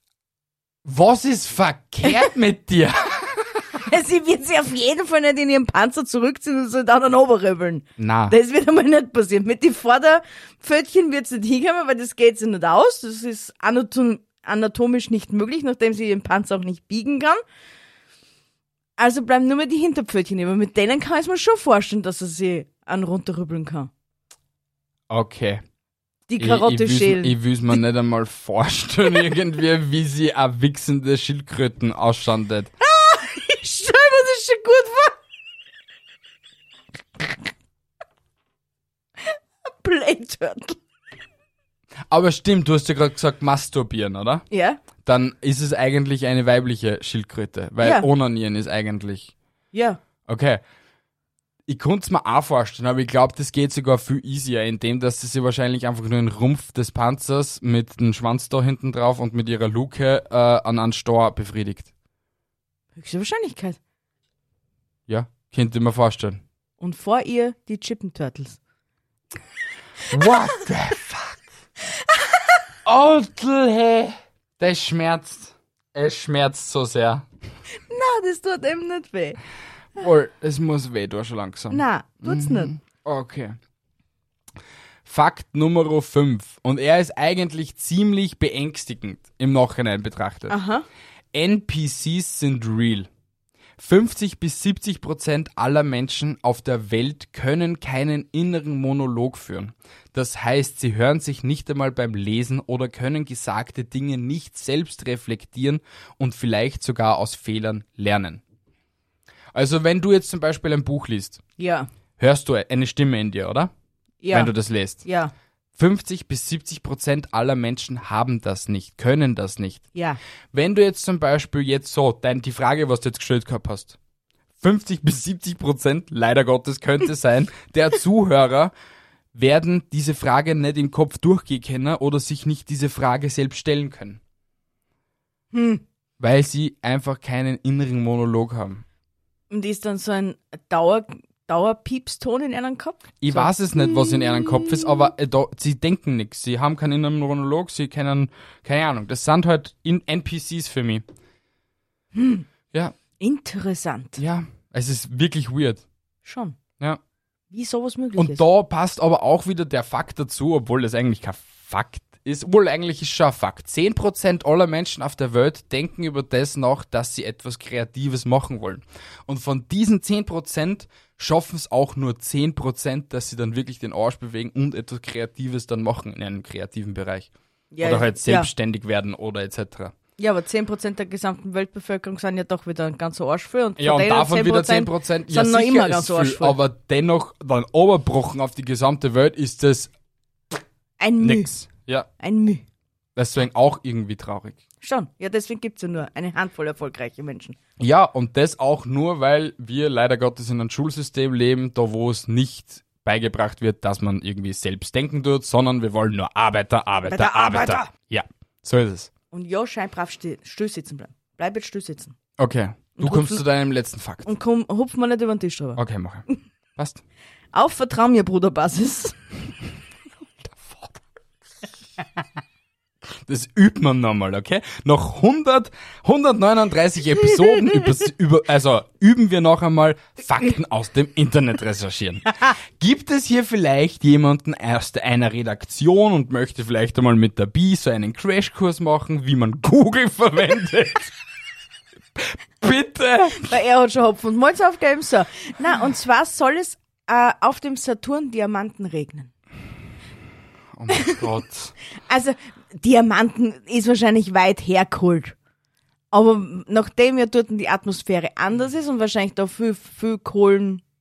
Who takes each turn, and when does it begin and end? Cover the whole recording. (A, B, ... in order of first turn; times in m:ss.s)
0:00.8-0:03.6 A
0:03.8-0:17.4 B
0:08.0-0:08.4 A
0:19.0-0:23.9 B
0:25.1-0:25.6 A
0:26.3-0:27.4 B
0:26.4-0:32.7 A
0:32.8-0:35.2 B
0:39.3-0:40.8 B
0:42.1-0:44.5 A
0:44.5-0:44.8 B
0:45.0-0:49.3 A
0:47.8-0:48.1 B
0:49.7-0:50.0 B
0:50.3-0:50.6 A
0:51.7-1:01.9 A
1:03.0-1:03.8 B
1:05.1-1:06.4 A
1:06.8-1:08.6 B
1:10.1-1:11.4 A
1:12.9-1:17.3 A
1:17.9-1:19.4 B
1:20.0-1:23.6 A
1:21.7-1:22.7 B
1:25.1-1:30.6 A
1:30.5-1:30.8 B
1:31.3-1:33.1 A
1:33.8-1:48.4 A
1:49.5-1:51.4 A
1:51.6-1:51.9 B
1:52.2-1:53.7 A
1:54.2-1:54.5 B
1:54.3-1:55.0 A
1:55.0-1:55.3 B
1:55.8-1:59.9 A
2:00.5-2:04.0 A
2:04.6-2:08.7 A
2:09.3-2:14.2 A
2:15.5-2:15.8 B
2:16.2-2:18.8 A
2:19.5-2:24.8 B
2:23.2-2:31.0 A
2:32.2-2:32.4 B
2:33.2-2:34.2 B
2:34.2-2:35.8 A
2:36.2-2:36.6 B
2:37.5-2:38.4 B
2:38.2-2:57.3 A
2:57.7-2:58.5 B
2:57.8-2:59.9 A
3:00.2-3:06.6 B
3:03.8-3:09.9 A
3:11.0-3:11.5 B
3:11.2-3:12.1 A
3:12.2-3:12.6 B
3:13.2-3:14.6 A
3:14.8-3:17.6 B
3:17.8-3:29.1 A
3:27.1-3:27.9 B
3:29.3-3:32.2 B
3:32.4-3:34.3 A
3:33.0-3:33.4 B
3:34.2-3:35.8 B
3:35.8-3:36.2 A
3:36.8-3:37.0 A
3:37.5-3:39.2 B
3:40.5-3:41.0 A
3:43.3-4:01.1 A
4:02.2-4:03.6 A
4:03.4-4:09.3 B
4:10.7-4:11.7 A
4:10.9-4:11.2 B
4:12.1-4:15.3 B
4:16.1-4:20.8 B